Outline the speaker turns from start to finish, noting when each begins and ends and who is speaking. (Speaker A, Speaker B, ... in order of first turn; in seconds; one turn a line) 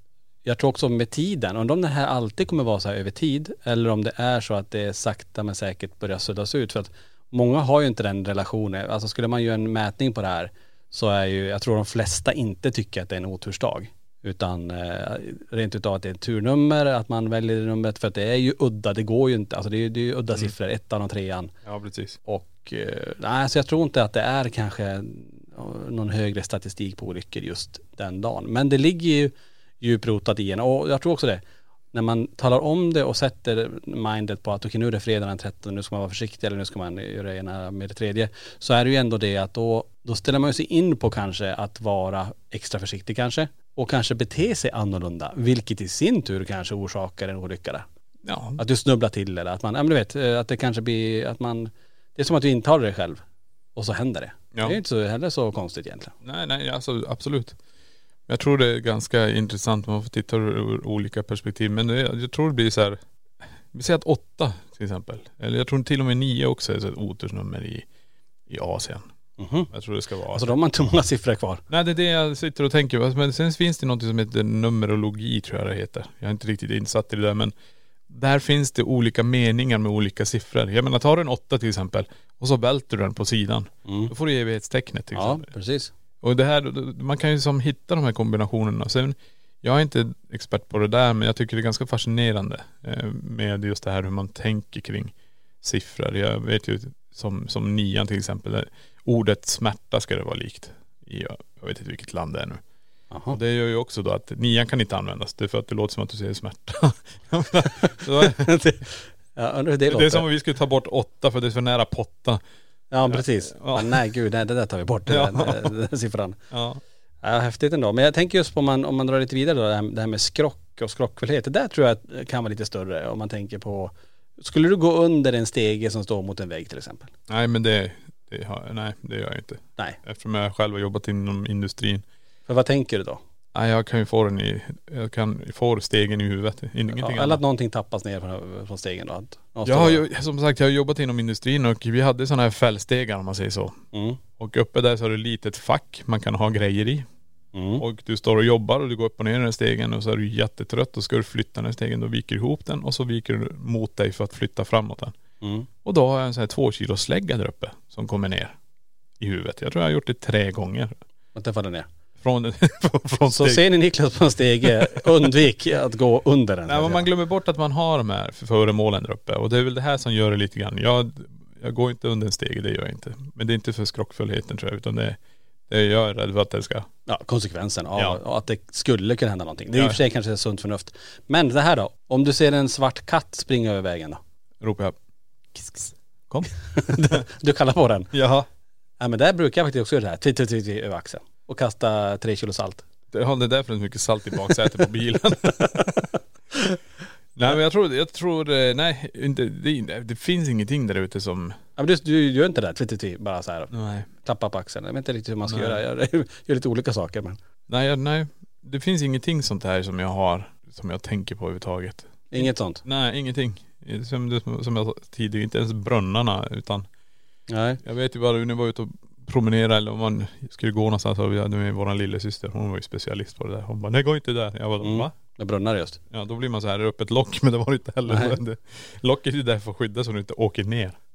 Speaker A: 0.4-21.5
Speaker B: 21.6-22.2
Speaker A: 22.2-31.4
Speaker A: 31.9-47.9
Speaker B: 48.2-48.6
Speaker A: 48.6-53.2
Speaker A: 53.8-56.1
Speaker B: 56.2-57.5
Speaker B: 58.3-63.0
Speaker B: 63.7-67.8
Speaker B: 68.5-69.1
Speaker A: 69.4-69.7
Speaker B: 69.7-70.5
Speaker A: 70.3-71.6
Speaker B: 71.7-77.5
Speaker B: 78.1-85.5
Speaker A: 83.9-84.1
Speaker A: 85.1-85.9
Speaker B: 86.2-102.6
Speaker A: 103.1-103.4
Speaker B: 103.3-108.4
Speaker A: 108.2-110.2
Speaker B: 109.9-112.4
Speaker A: 112.9-116.4
Speaker B: 113.1-114.0
Speaker B: 115.1-115.7
Speaker B: 116.5-116.8
Speaker A: 117.2-127.1
Speaker B: 127.3-132.0
Speaker A: 132.5-133.2
Speaker B: 133.5-137.4
Speaker A: 136.9-140.0
Speaker B: 139.6-143.8
Speaker A: 143.9-144.2
Speaker B: 144.4-147.1
Speaker A: 147.5-147.8
Speaker B: 147.8-155.1
Speaker A: 155.4-155.7
Speaker B: 155.8-158.5
Speaker B: 159.2-160.9
Speaker A: 161.3-161.9
Speaker B: 162.2-163.6
Speaker A: 163.3-167.1
Speaker B: 166.7-175.2
Speaker B: 175.7-176.9
Speaker A: 177.1-184.2
Speaker B: 179.7-180.0
Speaker B: 184.6-184.9
Speaker B: 185.6-187.2
Speaker A: 186.8-188.1
Speaker B: 188.1-188.4
Speaker A: 189.0-192.8
Speaker B: 193.1-196.1
Speaker B: 197.4-201.6
Speaker A: 201.8-203.7
Speaker B: 203.7-204.1
Speaker A: 204.2-207.4
Speaker B: 205.5-205.8
Speaker B: 207.7-216.9
Speaker A: 212.3-212.8
Speaker A: 217.5-217.8
Speaker B: 217.8-225.1
Speaker A: 224.8-226.0
Speaker B: 226.1-230.9
Speaker A: 228.1-228.4